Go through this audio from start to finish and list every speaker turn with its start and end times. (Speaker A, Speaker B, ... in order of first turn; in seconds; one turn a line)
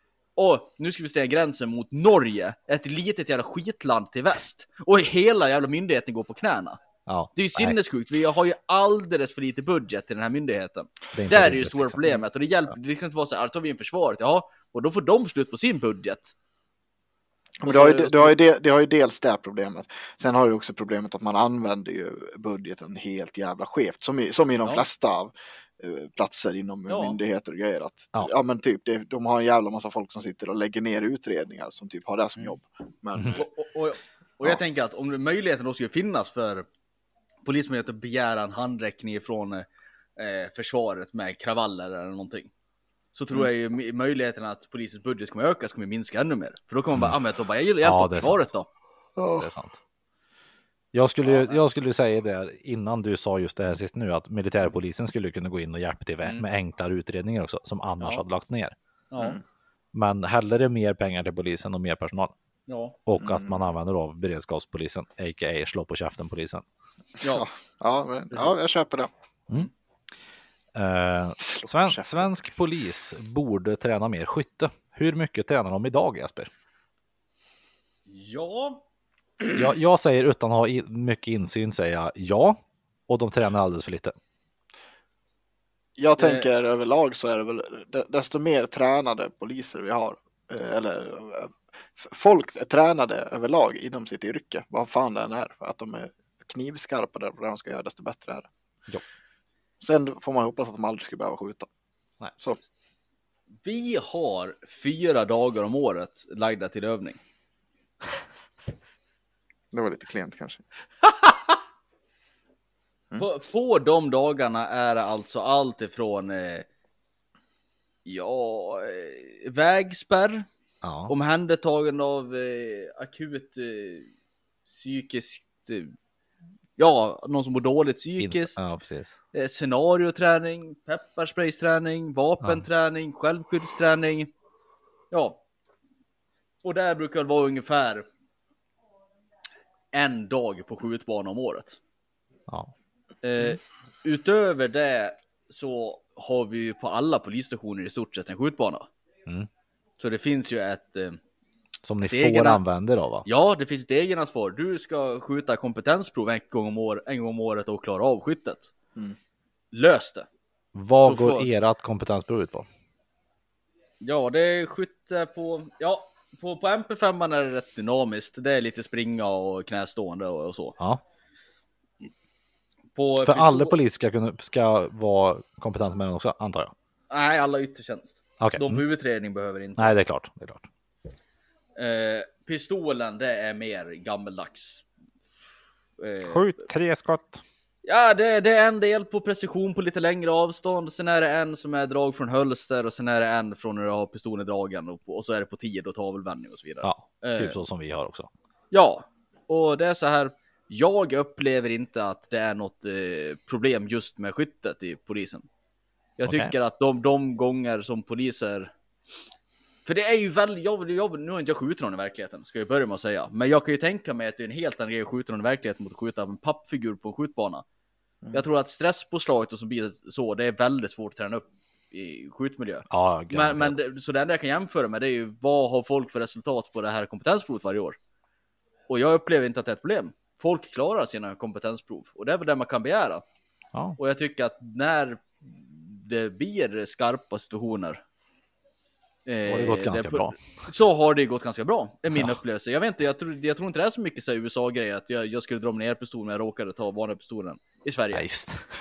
Speaker A: 0.3-6.8
Speaker B: 7.1-7.8
Speaker A: 7.3-16.3
Speaker B: 11.1-12.0
Speaker C: 17.6-33.5
Speaker A: 17.6-18.4
Speaker A: 26.9-27.2
Speaker A: 33.4-36.7
Speaker A: 37.4-42.5
Speaker A: 43.1-48.7
Speaker B: 47.8-48.4
Speaker C: 49.2-49.4
Speaker B: 49.3-49.8
Speaker B: 50.9-58.7
Speaker A: 51.2-51.6
Speaker A: 59.1-59.4
Speaker B: 59.9-62.3
Speaker A: 62.7-63.0
Speaker B: 63.1-66.6
Speaker C: 63.2-63.6
Speaker C: 67.2-69.1
Speaker B: 70.7-76.5
Speaker C: 71.4-72.5
Speaker A: 78.1-78.8
Speaker B: 79.5-84.1
Speaker C: 86.0-98.5
Speaker A: 86.2-86.5
Speaker C: 99.8-101.7
Speaker A: 103.6-107.2
Speaker C: 109.7-110.6
Speaker A: 113.2-116.7
Speaker A: 118.0-120.5
Speaker B: 120.8-121.1
Speaker A: 121.1-124.1
Speaker A: 124.7-125.9
Speaker A: 126.8-128.6
Speaker B: 128.2-129.1
Speaker A: 129.3-134.3
Speaker A: 135.1-135.4
Speaker A: 136.6-138.1
Speaker A: 139.9-141.8
Speaker A: 143.2-148.9
Speaker A: 150.0-151.2
Speaker B: 151.8-153.2
Speaker A: 152.1-152.6
Speaker A: 153.2-158.7
Speaker A: 159.7-160.3
Speaker B: 160.7-162.7
Speaker A: 161.0-161.5
Speaker A: 164.0-170.8
Speaker A: 172.9-173.8
Speaker B: 173.2-176.7
Speaker A: 177.1-180.0
Speaker B: 178.4-178.8
Speaker B: 179.8-180.6
Speaker A: 181.8-184.8
Speaker A: 186.0-186.6
Speaker B: 186.2-187.4
Speaker A: 187.8-197.6
Speaker B: 196.8-198.3
Speaker A: 198.7-205.4
Speaker A: 206.2-208.7
Speaker A: 209.8-217.6
Speaker A: 218.3-228.0
Speaker B: 222.9-223.8
Speaker A: 228.9-233.2
Speaker A: 234.0-238.0
Speaker A: 239.2-248.2
Speaker B: 239.4-240.5
Speaker B: 248.1-248.6